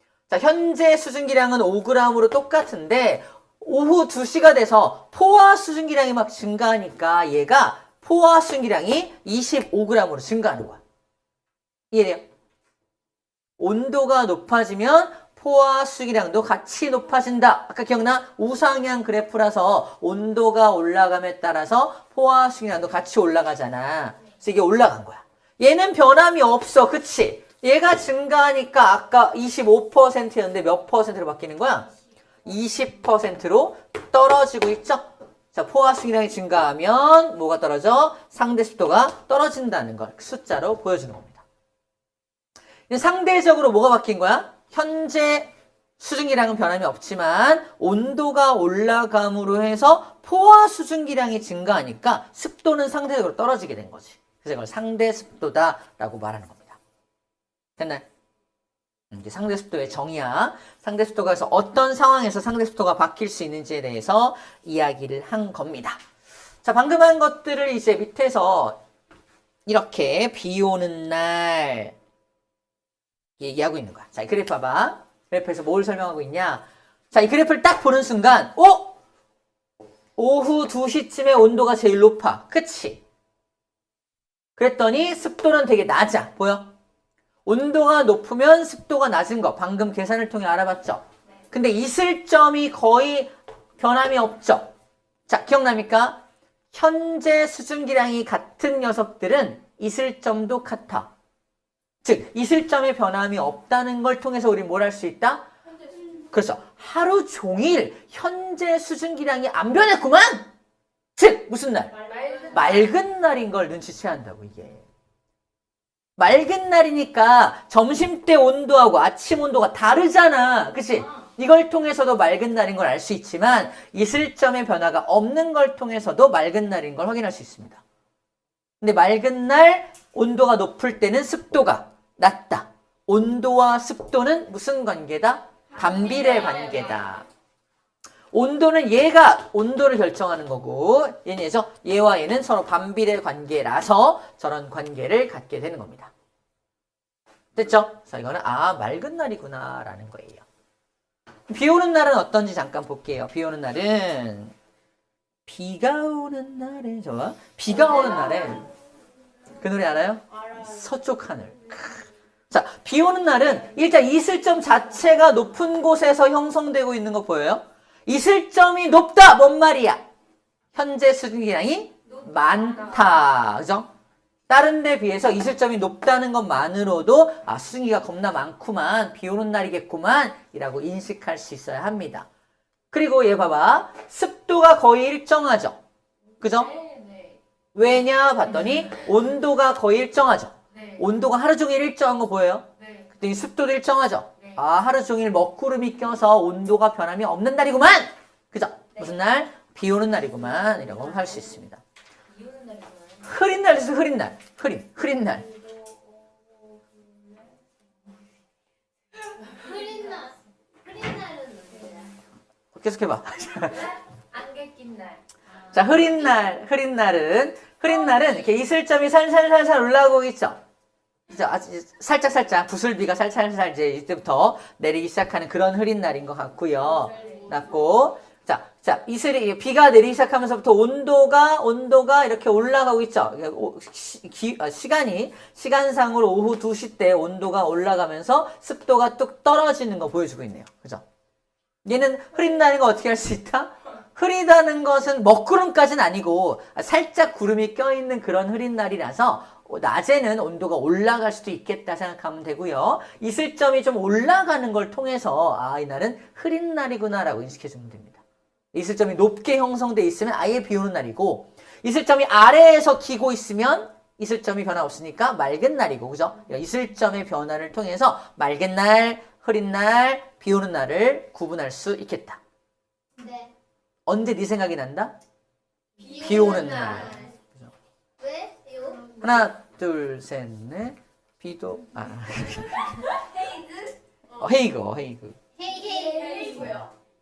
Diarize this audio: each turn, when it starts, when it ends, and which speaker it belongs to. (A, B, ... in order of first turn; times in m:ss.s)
0:00.3-0:10.8 A
0:11.9-0:12.3 A
0:13.6-0:31.9 A
0:32.4-0:41.4 A
0:42.9-0:56.8 A
0:57.8-0:58.0 A
0:59.1-1:06.0 A
1:06.6-1:08.8 A
1:09.7-1:11.9 A
1:13.4-1:19.0 A
1:20.2-1:23.0 A
1:24.6-1:26.7 A
1:27.5-1:34.7 A
1:35.3-1:36.2 A
1:36.7-1:41.1 A
1:42.0-1:45.5 A
1:46.2-1:50.5 A
1:51.2-1:52.0 A
1:51.9-1:52.9 B
1:52.5-1:54.9 A
1:56.2-2:07.8 A
2:08.8-2:17.3 A
2:16.1-2:16.9 B
2:18.3-2:26.1 A
2:27.6-2:30.4 A
2:31.5-2:34.5 A
2:35.5-2:38.7 A
2:39.6-2:50.0 A
2:40.3-2:40.8 B
2:50.7-2:53.9 A
2:54.5-3:02.3 A
3:02.9-3:05.8 A
3:06.4-3:06.8 A
3:06.6-3:07.4 B
3:07.7-3:21.8 A
3:10.8-3:11.0 B
3:12.8-3:13.0 B
3:23.2-3:25.5 A
3:29.4-3:32.2 C
3:32.7-3:34.0 A
3:35.7-3:40.6 A
3:41.3-4:01.0 A
3:47.1-3:47.7 B
4:01.8-4:18.2 A
4:18.7-4:32.4 A
4:33.2-4:33.5 C
4:34.1-4:35.1 A
4:36.0-4:37.3 C
4:36.0-4:37.1 B
4:36.2-4:37.7 A
4:38.2-4:39.0 C
4:39.2-4:43.2 A
4:44.3-4:45.4 A
4:45.6-4:46.8 C
4:45.8-4:46.9 B